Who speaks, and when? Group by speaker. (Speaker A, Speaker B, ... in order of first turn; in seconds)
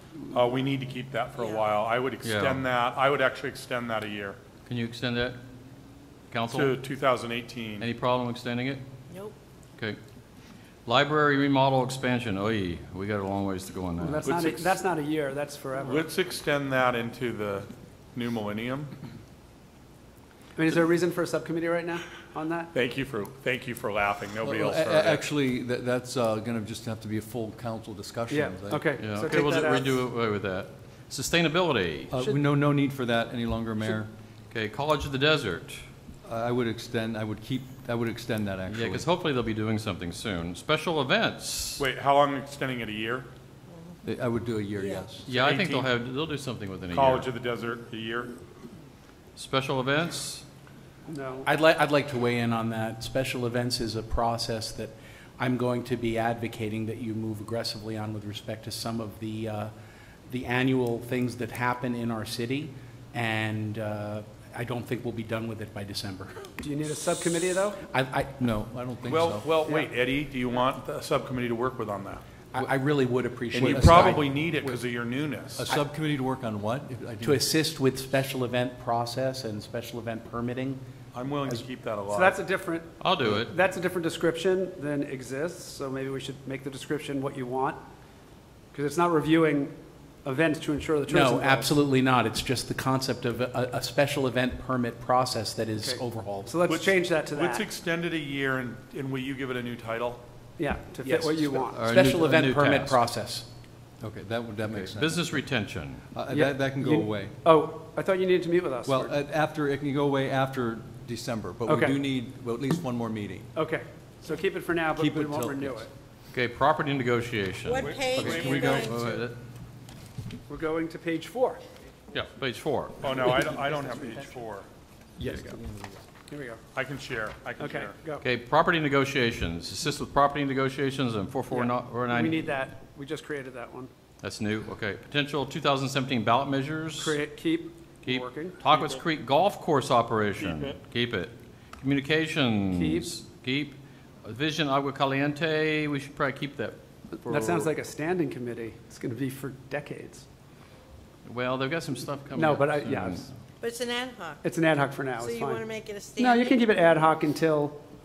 Speaker A: 0.3-4.4, 6.5-7.9, 14.2-14.8, 15.8-18.9, 22.7-25.3, 41.8-43.3, 45.3-45.9, 46.9-48.4, 69.0-72.2, 73.5-75.7, 81.1-82.4, 96.7-100.2, 117.9-118.8, 123.0-124.7, 126.7-128.0
Speaker B: 1.4-1.8, 9.1-9.3, 43.7-44.0, 44.8-45.0, 117.7-118.9, 153.6-154.4, 155.2-156.7
Speaker C: 2.2-2.6, 4.7-5.4, 6.3-6.8, 7.8-8.8, 10.8-14.3, 29.0-32.1, 34.5-35.8, 38.7-41.9, 45.2-47.3, 49.4-50.4, 83.0-83.5, 101.7-103.0, 104.7-106.0, 116.3-119.4, 122.1-123.1, 128.2-132.5, 134.2-137.2, 138.0-147.7, 151.2-153.2
Speaker D: 14.0-16.1, 20.5-22.7, 28.3-30.0, 51.0-51.5, 66.6-67.8, 82.1-87.8, 88.7-91.7, 95.8-97.7, 100.6-101.8, 106.3-109.2, 111.7-112.0, 113.5-115.9, 120.5-121.6, 125.2-125.6, 126.3-126.6, 127.6-128.2, 131.5-133.9, 137.0-138.6, 142.7-143.1, 147.2-150.2, 152.3-153.3, 154.4-155.6, 156.2-157.8
Speaker E: 24.4-28.9, 32.1-34.1, 36.2-39.0, 44.0-45.3, 68.4-69.5, 73.7-74.8, 75.5-77.4, 104.0-105.3, 106.1-107.3, 108.8-113.5, 115.0-115.9, 118.1-119.0, 125.2-126.0
Speaker F: 51.4-59.7, 60.3-66.4, 67.8-68.4, 72.5-74.2, 77.2-80.8, 91.1-96.6, 101.0-103.4